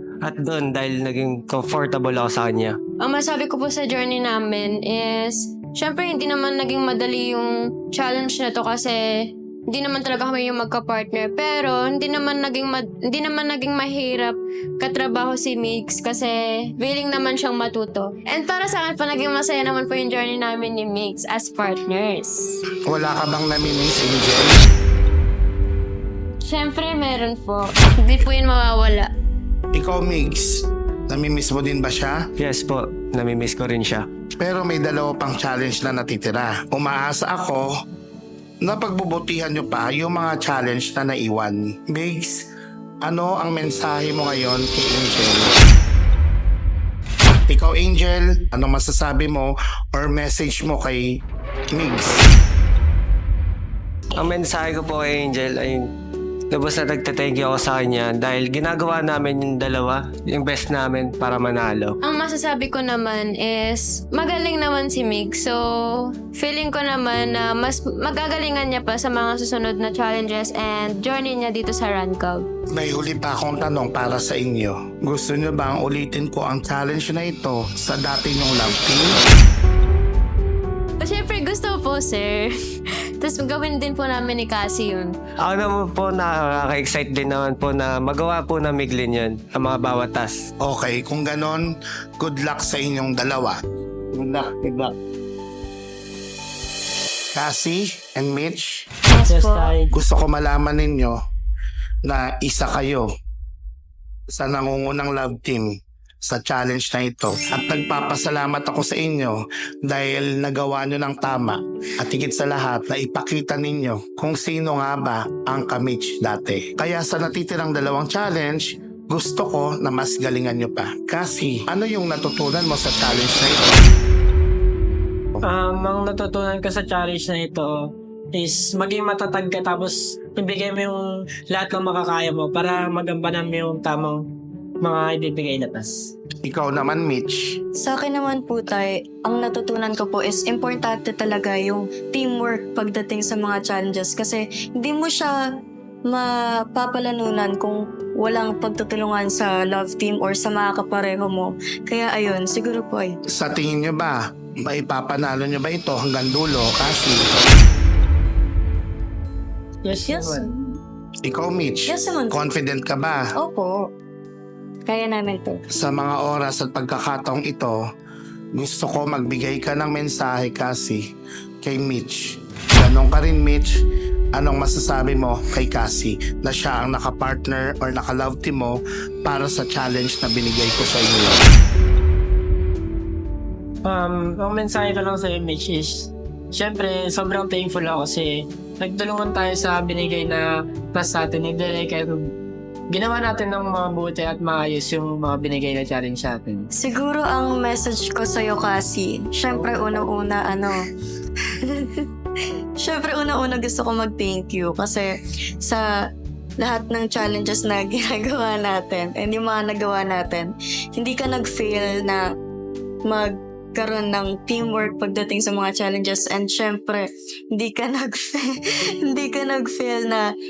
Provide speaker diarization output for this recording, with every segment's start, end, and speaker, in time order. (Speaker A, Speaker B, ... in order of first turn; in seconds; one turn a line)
Speaker A: 0.2-2.8
Speaker B: 3.0-22.6
Speaker C: 22.9-24.6
Speaker B: 26.4-29.1
Speaker C: 29.7-32.2
Speaker A: 32.4-34.1
Speaker C: 34.4-37.7
Speaker C: 38.6-42.4
Speaker C: 43.0-45.5
Speaker C: 47.5-51.2
Speaker C: 51.7-52.3
Speaker A: 54.2-55.8
Speaker A: 56.5-62.0
Speaker B: 62.0-72.5
Speaker C: 72.7-79.2
Speaker B: 81.0-82.5
Speaker B: 83.2-85.1
Speaker A: 85.4-90.4
Speaker C: 90.6-93.6
Speaker C: 94.1-94.9
Speaker C: 97.3-98.9
Speaker D: 99.1-99.7
Speaker E: 99.3-99.9
Speaker C: 99.9-101.2
Speaker C: 102.0-103.1
Speaker C: 104.3-105.7
Speaker C: 106.2-123.8
Speaker E: 125.4-127.7
Speaker E: 128.3-134.2
Speaker E: 134.8-136.1
Speaker C: 136.4-137.6
Speaker D: 137.8-145.4
Speaker D: 146.1-153.2
Speaker C: 153.3-157.2
Speaker E: 159.8-160.5
Speaker D: 160.1-160.8
Speaker C: 161.2-163.2
Speaker D: 161.9-162.4
Speaker D: 163.3-163.9
Speaker D: 164.8-165.6
Speaker C: 165.7-167.8
Speaker C: 168.5-171.0
Speaker C: 171.6-173.7
Speaker C: 174.3-181.4
Speaker E: 183.8-192.3
Speaker E: 192.9-196.6
Speaker D: 196.7-200.9
Speaker D: 201.6-202.0
Speaker D: 202.8-205.8
Speaker D: 206.6-212.2
Speaker D: 213.1-218.5
Speaker D: 219.0-220.3